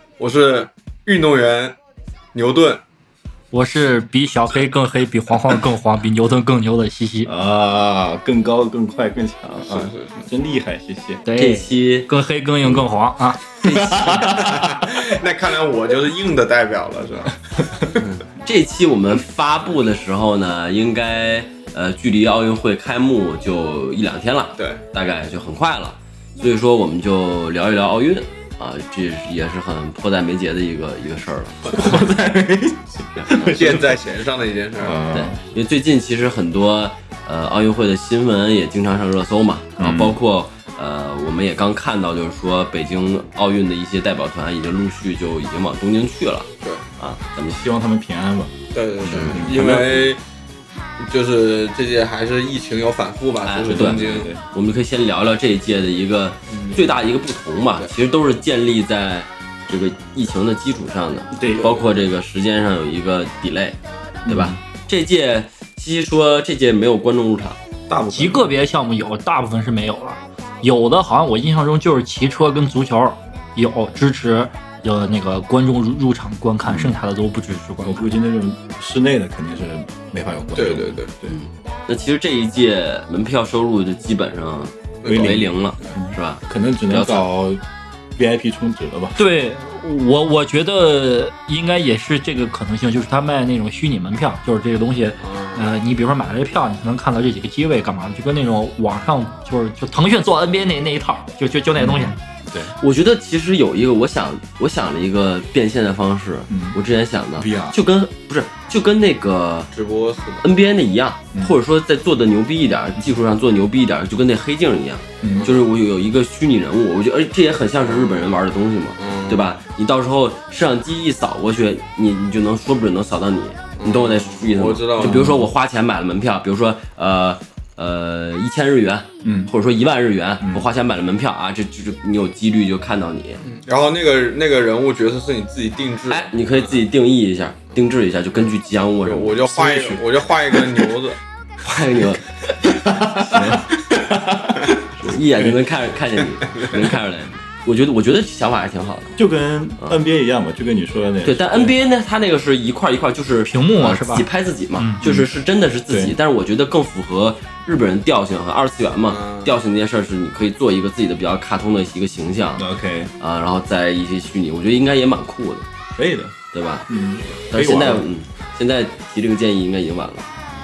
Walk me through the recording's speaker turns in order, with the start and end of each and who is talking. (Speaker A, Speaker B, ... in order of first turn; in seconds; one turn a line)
Speaker A: 0.2-1.8
Speaker A: 2.3-2.8
Speaker B: 3.5-7.3
Speaker C: 7.2-11.2
Speaker A: 9.6-10.2
Speaker B: 11.2-14.2
Speaker D: 11.3-12.1
Speaker D: 13.6-14.3
Speaker C: 13.6-15.2
Speaker A: 14.3-17.3
Speaker D: 18.0-32.0
Speaker A: 31.6-32.0
Speaker C: 31.7-33.9
Speaker A: 33.4-35.0
Speaker C: 34.8-35.4
Speaker D: 35.1-47.7
Speaker C: 39.8-40.2
Speaker C: 47.6-50.1
Speaker A: 48.7-50.2
Speaker D: 49.1-49.5
Speaker A: 51.0-54.3
Speaker D: 53.4-67.6
Speaker C: 53.6-54.4
Speaker C: 56.5-56.8
Speaker C: 61.3-61.8
Speaker A: 61.5-61.8
Speaker C: 64.2-64.6
Speaker A: 67.9-68.4
Speaker B: 68.1-78.1
Speaker C: 76.6-77.0
Speaker C: 77.8-81.4
Speaker A: 80.5-81.2
Speaker D: 81.2-87.3
Speaker A: 85.0-85.9
Speaker C: 85.0-87.6
Speaker C: 88.2-89.2
Speaker B: 89.2-102.2
Speaker A: 95.2-95.7
Speaker C: 101.8-102.7
Speaker D: 102.8-109.7
Speaker C: 106.5-106.8
Speaker C: 107.4-107.8
Speaker A: 109.7-110.4
Speaker D: 110.4-133.4
Speaker C: 115.2-115.5
Speaker A: 115.3-115.7
Speaker A: 117.8-118.4
Speaker A: 119.0-119.5
Speaker A: 123.8-125.4
Speaker C: 125.0-125.5
Speaker C: 129.2-129.5
Speaker C: 130.4-130.7
Speaker A: 133.4-136.8
Speaker D: 136.1-140.0
Speaker A: 139.0-141.2
Speaker D: 141.6-142.3
Speaker C: 142.9-145.6
Speaker D: 143.2-143.6
Speaker D: 145.0-149.1
Speaker A: 146.4-146.8
Speaker C: 149.2-151.7
Speaker D: 151.2-162.7
Speaker B: 153.4-155.0
Speaker C: 155.0-155.3
Speaker C: 155.9-156.2
Speaker A: 159.1-159.5
Speaker C: 162.6-163.1
Speaker D: 163.2-165.7
Speaker C: 165.9-166.3
Speaker D: 166.5-170.3
Speaker C: 166.9-168.1